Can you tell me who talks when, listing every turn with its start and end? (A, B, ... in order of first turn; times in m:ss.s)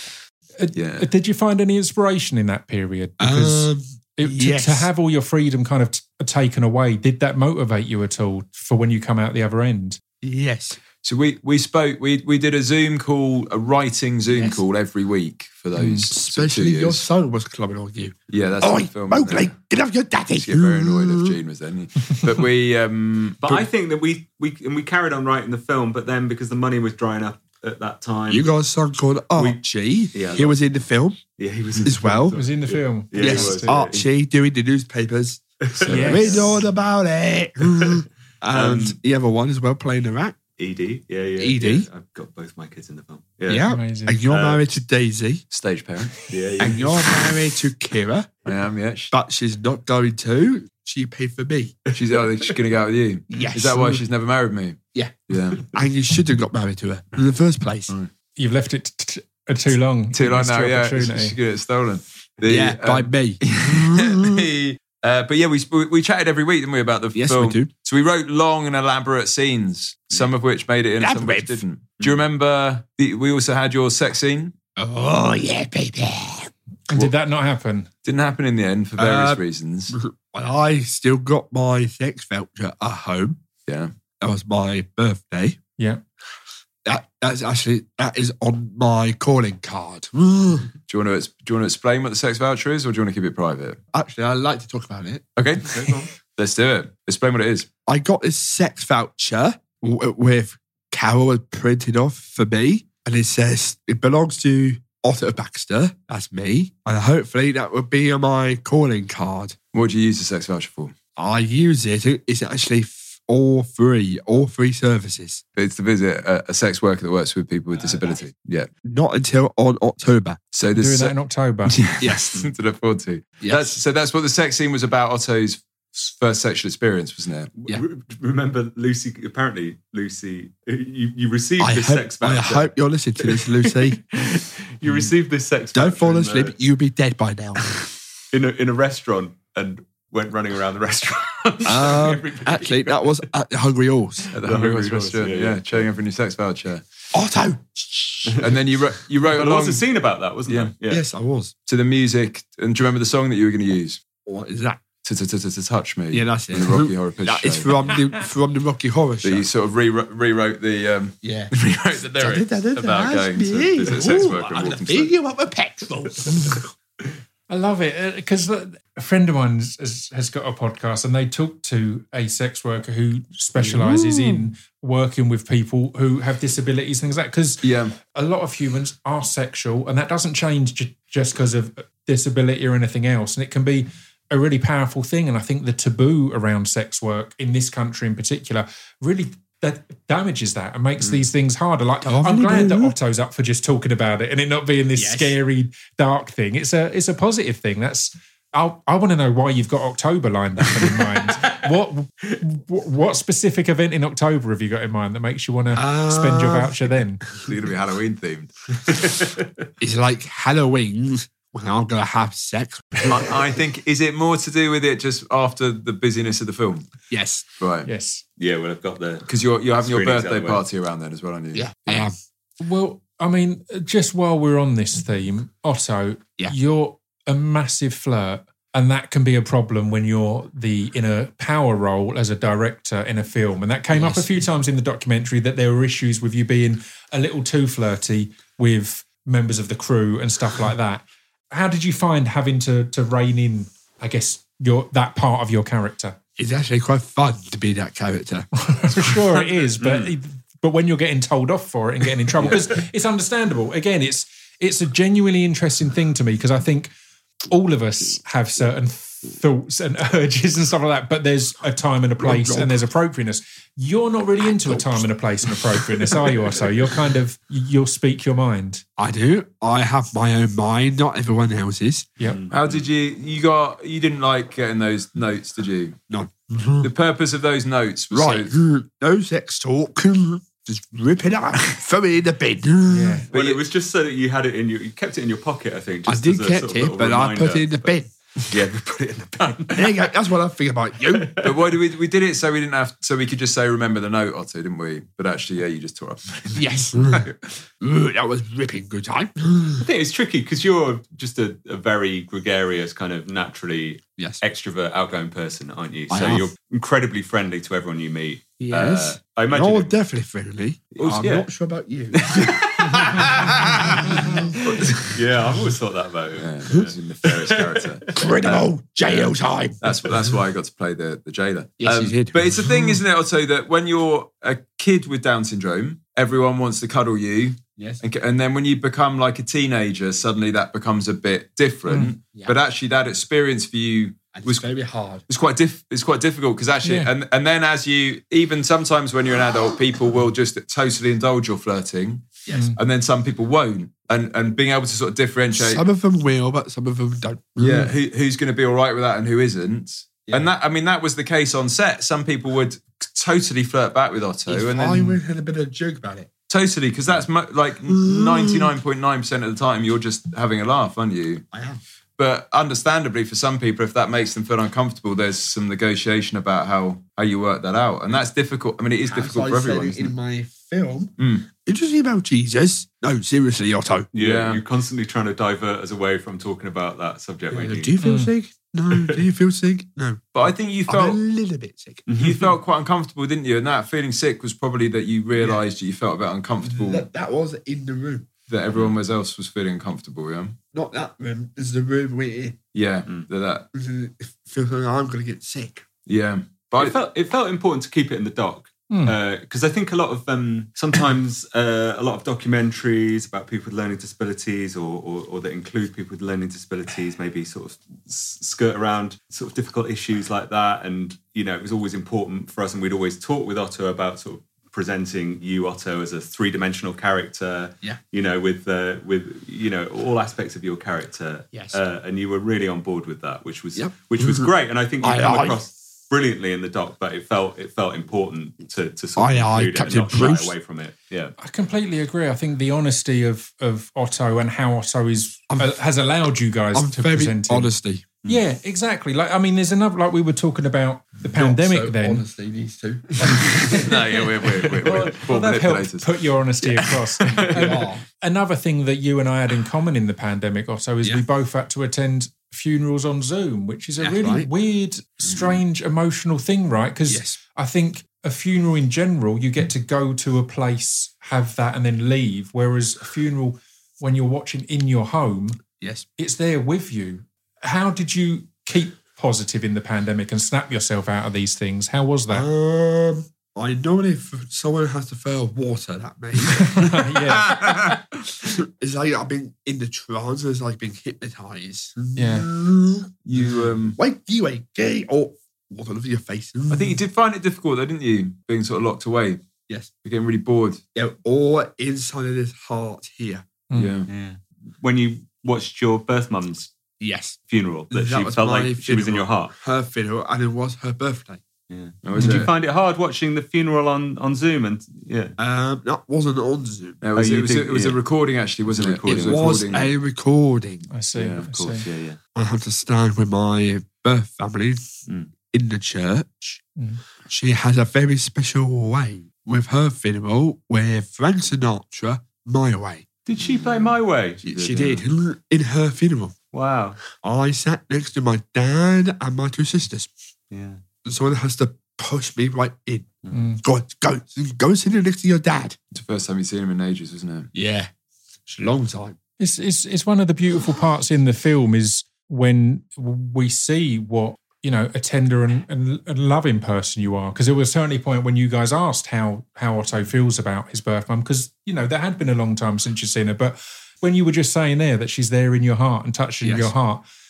0:00.6-0:10.0 A
0:00.7-0:01.1 B
0:03.2-0:04.9 C
0:10.2-0:10.8 C
0:11.0-0:17.0 B
0:14.3-0:14.6 C
0:15.7-0:16.1 A
0:16.1-0:21.4 C
0:18.3-0:19.5 B
0:20.3-0:23.6 B
0:23.4-0:28.5 D
0:28.3-0:31.2 C
0:29.3-0:29.6 D
0:30.1-0:30.6 D
0:31.4-0:34.1 D
0:31.8-0:32.4 C
0:32.3-0:33.8 A
0:33.1-0:40.4 C
0:35.6-0:36.5 D
0:35.9-0:36.4 A
0:37.8-0:39.0 D
0:40.6-0:43.7 D
0:41.4-0:41.9 C
0:43.5-0:45.4 C
0:43.7-0:44.2 A
0:44.3-0:44.6 D
0:45.5-0:46.7 B
0:46.3-0:47.3 D
0:46.6-0:48.3 C
0:48.4-0:49.1 B
0:49.1-0:51.8 C
0:51.8-0:52.6 D
0:51.9-0:55.7 B
0:53.3-0:54.0 C
0:54.9-0:57.9 C
0:58.4-1:01.4 A
1:00.1-1:14.5 B
1:02.4-1:04.4 C
1:07.1-1:07.7 C
1:11.0-1:11.6 C
1:14.8-1:16.5 C
1:16.9-1:17.9 A
1:18.0-1:20.0 B
1:19.0-1:23.4 C
1:23.6-1:23.9 B
1:24.2-1:25.6 C
1:26.8-1:30.7 C
1:30.9-1:33.8 B
1:33.9-1:35.2 C
1:35.4-1:37.7 B
1:35.7-1:36.0 D
1:37.8-1:49.6 C
1:49.7-1:50.9 B
1:51.2-1:55.4 C
1:55.5-1:58.7 B
1:57.8-1:58.2 C
1:58.8-2:00.4 C
2:00.5-2:01.2 B
2:00.7-2:01.8 A
2:01.7-2:07.5 B
2:01.8-2:02.4 C
2:03.4-2:03.8 C
2:07.6-2:16.5 D
2:11.6-2:14.0 C
2:15.7-2:17.8 C
2:17.6-2:23.2 D
2:21.6-2:24.3 C
2:24.2-2:25.8 D
2:24.3-2:26.8 B
2:27.1-2:28.4 C
2:28.4-2:29.8 B
2:29.2-2:31.0 D
2:30.9-2:31.5 C
2:31.6-2:34.0 B
2:34.2-2:34.8 C
2:35.0-2:37.9 B
2:36.1-2:39.5 C
2:39.2-2:45.1 B
2:41.2-2:41.5 C
2:42.2-2:46.7 C
2:47.5-3:27.2 A
2:53.6-2:54.4 C
2:57.6-2:57.9 B
3:12.0-3:12.9 C
3:15.0-3:15.4 C
3:20.8-3:21.5 D
3:25.7-3:26.9 C
3:27.4-3:28.5 B
3:28.8-3:29.6 D
3:29.8-3:33.2 C
3:33.0-3:36.9 B
3:37.1-3:37.4 C
3:37.6-3:37.9 B
3:37.8-3:38.2 A
3:38.4-3:40.6 D
3:39.3-3:42.1 B
3:41.5-3:42.1 C
3:42.6-4:06.2 A
3:53.9-3:54.3 C
4:06.4-4:09.2 C
4:08.5-4:16.9 A
4:09.8-4:10.1 D
4:17.5-4:28.8 A
4:22.2-4:22.8 C
4:24.4-4:26.6 C
4:29.0-4:32.1 C
4:32.2-4:32.8 D
4:32.5-4:36.0 B
4:36.1-4:36.9 C
4:36.8-4:38.5 B
4:38.1-4:43.2 C
4:42.9-4:43.3 A
4:43.3-4:43.6 B
4:43.3-4:47.9 D
4:46.1-4:48.1 C
4:48.4-4:50.1 D
4:49.7-4:51.3 C
4:51.1-4:51.6 D
4:51.4-4:57.3 B
4:56.5-4:57.2 C
4:57.8-4:59.8 C
4:59.8-5:10.0 D
5:04.2-5:04.4 C
5:06.1-5:06.5 C
5:08.6-5:14.9 C
5:11.0-5:11.4 D
5:12.1-5:18.6 D
5:13.3-5:14.0 B
5:16.4-5:34.7 B
5:18.1-5:20.2 C
5:21.8-5:23.0 C
5:27.8-5:28.0 C
5:34.3-5:35.2 C
5:35.3-5:45.8 B
5:36.8-5:37.1 A
5:42.4-5:42.8 C
5:42.5-5:42.8 A
5:45.5-5:47.9 C
5:47.6-5:55.2 B
5:54.5-5:56.3 C
5:56.5-6:01.4 B
5:57.9-5:58.7 C
6:01.5-6:01.8 C
6:02.2-6:10.1 B
6:09.0-6:14.1 C
6:11.2-6:11.5 B
6:14.1-6:18.0 D
6:14.2-6:14.6 B
6:17.5-6:22.0 C
6:18.0-6:18.3 A
6:20.3-6:21.2 B
6:22.1-6:22.6 D
6:22.2-6:27.1 B
6:26.6-6:28.3 C
6:28.5-6:30.6 B
6:30.7-6:32.6 C
6:32.7-6:33.7 B
6:33.7-6:35.8 C
6:36.1-6:37.0 B
6:36.8-7:11.3 D
6:38.9-6:39.2 A
7:01.5-7:01.8 C
7:03.8-7:05.6 C
7:09.2-7:10.5 C
7:11.4-7:17.7 A
7:15.5-7:15.7 C
7:16.7-7:18.1 C
7:18.2-7:22.2 A
7:21.2-7:24.0 C
7:23.4-7:26.1 B
7:23.6-7:23.9 A
7:24.4-7:45.6 A
7:27.2-7:27.6 D
7:27.5-7:28.0 C
7:34.0-7:34.5 C
7:35.3-7:35.6 B
7:37.1-7:37.4 C
7:45.8-7:46.1 C
7:46.2-7:52.5 A
7:52.3-7:57.8 C
7:56.6-7:57.6 A
7:57.3-7:58.0 B
7:58.4-8:07.0 C
8:02.2-8:02.5 A
8:03.2-8:04.0 B
8:06.7-8:09.4 B
8:10.0-8:10.8 B
8:10.9-8:13.5 C
8:13.7-8:14.1 B
8:14.1-8:16.7 D
8:17.0-8:17.4 C
8:17.5-8:19.5 D
8:17.9-8:21.4 C
8:21.7-8:25.3 D
8:22.0-8:22.5 B
8:25.4-8:27.0 C
8:27.0-8:29.9 B
8:27.1-8:28.0 D
8:28.6-8:29.7 D
8:29.1-8:30.9 C
8:30.9-8:31.8 A
8:31.1-8:31.8 B
8:31.8-8:32.2 D
8:32.3-8:34.9 C
8:35.5-8:36.6 C
8:36.8-8:37.0 A
8:37.2-8:43.1 C
8:43.3-8:45.0 D
8:43.4-8:43.9 B
8:44.4-8:46.3 C
8:44.5-8:45.0 B
8:46.5-8:47.0 D
8:47.1-8:50.1 C
8:50.5-8:50.8 D
8:51.0-8:55.8 C
8:53.3-8:53.6 A
8:55.9-8:57.5 B
8:57.5-8:57.9 C
8:58.4-8:59.2 C
8:59.4-9:17.0 A
9:16.4-9:16.7 C